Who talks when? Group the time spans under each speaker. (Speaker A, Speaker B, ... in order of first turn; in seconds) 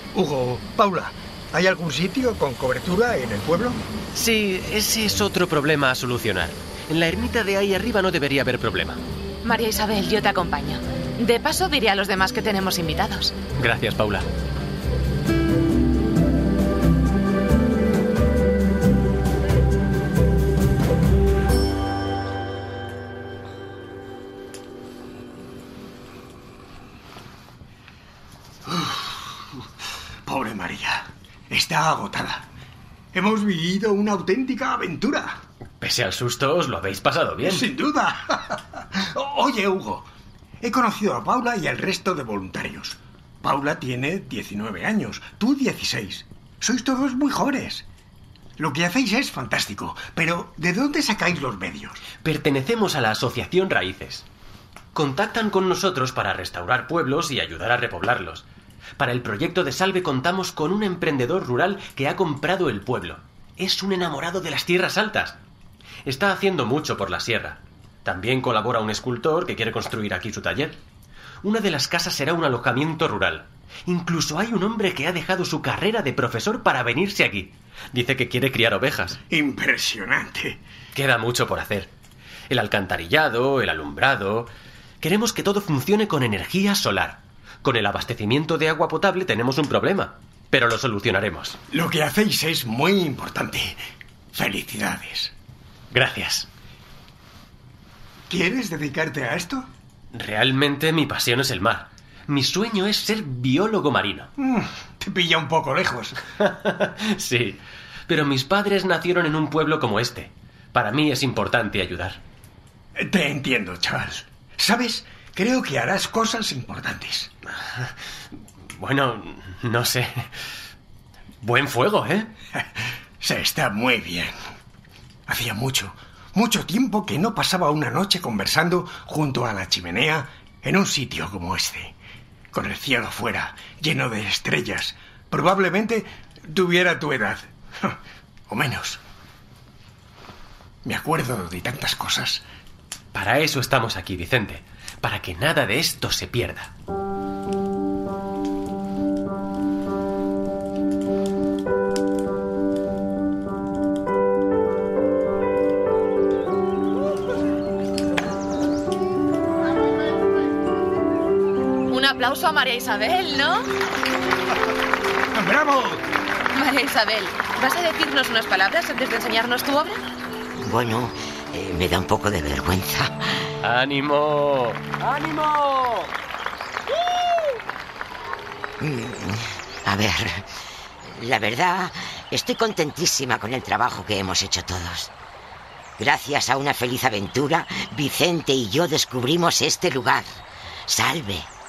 Speaker A: 0.1-3.8, 28.7-29.0, 30.3-32.5, 33.1-35.4, 37.4-40.1, 40.6-47.9, 48.6-52.0, 79.3-80.6, 91.7-93.8, 94.3-95.3, 98.3-99.7, 104.4-106.2, 113.0-117.3, 123.2-124.3, 125.3-131.9, 132.5-138.0, 138.5-139.0, 140.8-142.4, 165.3-166.0
Speaker B: 4.2-9.0, 13.6-14.3, 35.8-37.7, 52.2-54.3, 54.9-58.5, 59.0-65.4, 66.1-70.8, 71.4-79.2, 80.9-81.9, 82.5-84.5, 85.0-91.6, 95.9-96.5, 100.1-104.3, 106.4-112.2, 118.8-120.3, 121.4-122.3, 143.1-146.7, 173.6-175.9
Speaker C: 9.4-13.4, 161.9-163.7, 166.5-170.0
Speaker D: 170.6-173.4, 178.8-185.1, 186.0-191.5